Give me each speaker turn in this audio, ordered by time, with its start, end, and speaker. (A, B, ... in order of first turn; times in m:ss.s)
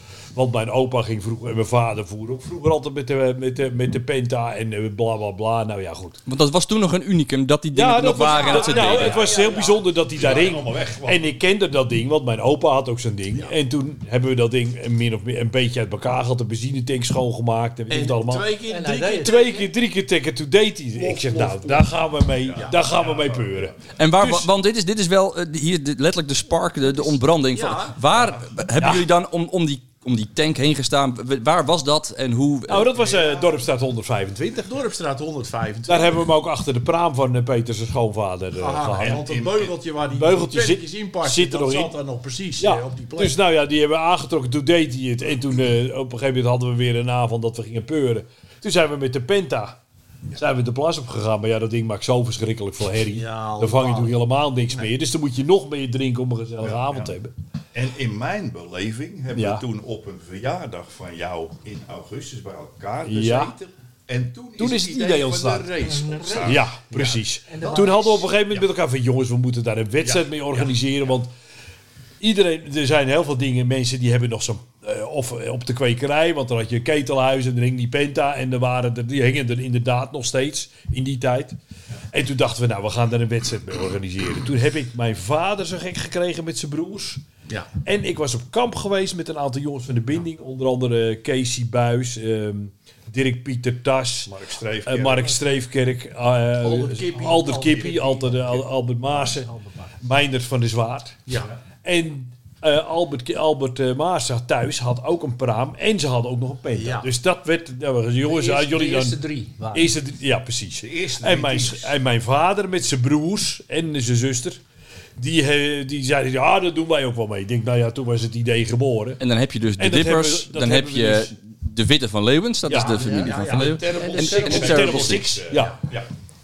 0:00.3-0:06.2 A
0:06.3-0:09.2 B
0:07.7-0:18.5 A
0:08.2-0:09.8 C
0:09.1-0:09.6 D
0:10.1-0:11.2 E
0:17.9-0:19.5 C
0:18.7-0:19.7 D
0:19.2-0:24.5 A
0:21.0-0:21.9 C
0:22.4-0:23.7 E
0:23.9-0:32.9 B
0:27.5-0:28.0 C
0:28.8-0:29.1 A
0:32.7-0:34.7 A
0:32.9-0:33.5 C
0:34.6-0:36.3 C
0:35.9-0:39.2 A
0:38.5-0:43.4 C
0:39.0-0:39.7 E
0:40.1-0:42.0 A
0:42.6-0:49.8 A
0:50.3-0:57.3 A
0:53.1-0:54.2 C
0:56.6-0:57.1 E
0:57.7-1:06.7 E
0:59.3-0:59.6 A
1:03.0-1:03.5 A
1:04.6-1:05.8 A
1:05.8-1:08.3 D
1:06.4-1:11.3 A
1:06.9-1:07.9 C
1:10.0-1:10.6 E
1:12.2-1:21.6 A
1:22.1-1:27.2 A
1:27.8-1:34.3 A
1:34.3-1:35.4 E
1:34.8-1:39.5 A
1:36.6-1:38.1 C
1:37.0-1:38.4 D
1:39.3-1:39.9 D
1:40.0-1:41.2 A
1:41.3-1:41.6 C
1:41.8-1:49.2 A
1:46.7-1:47.1 C
1:48.2-1:50.0 D
1:49.7-1:54.6 A
1:50.8-1:52.0 E
1:55.2-1:59.2 A
1:59.2-2:05.3 B
1:59.8-2:01.3 A
2:02.6-2:05.8 A
2:02.9-2:03.3 D
2:03.0-2:04.1 C
2:03.4-2:06.1 E
2:03.9-2:04.8 D